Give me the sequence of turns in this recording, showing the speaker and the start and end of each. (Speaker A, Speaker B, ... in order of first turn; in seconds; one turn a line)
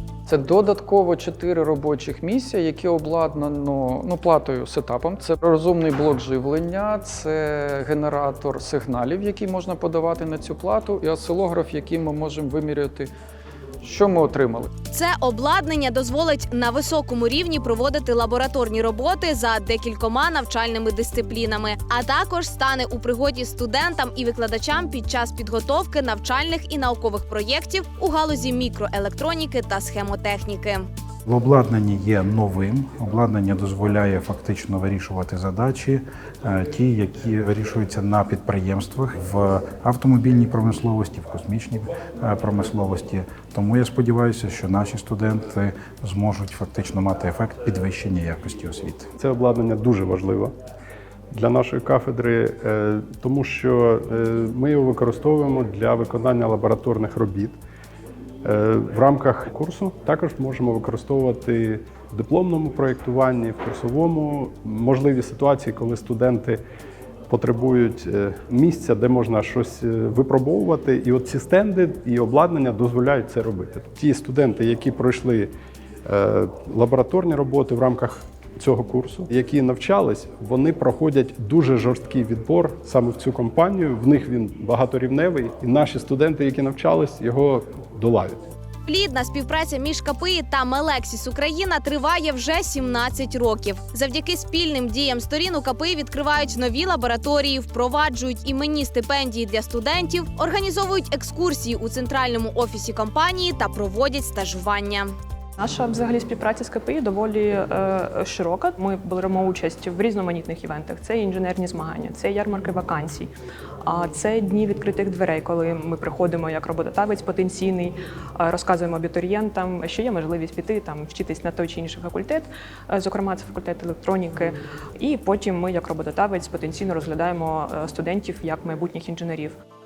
Speaker A: 0.3-13.1
Speaker A: 13.8-14.7
Speaker B: 14.9-30.8
Speaker C: 31.2-49.1
Speaker D: 49.2-50.5
Speaker D: 51.3-57.5
Speaker D: 58.4-66.6
Speaker D: 67.3-75.5
Speaker D: 76.0-88.4
Speaker B: 88.8-105.1
Speaker E: 105.6-113.3
Speaker E: 113.8-129.6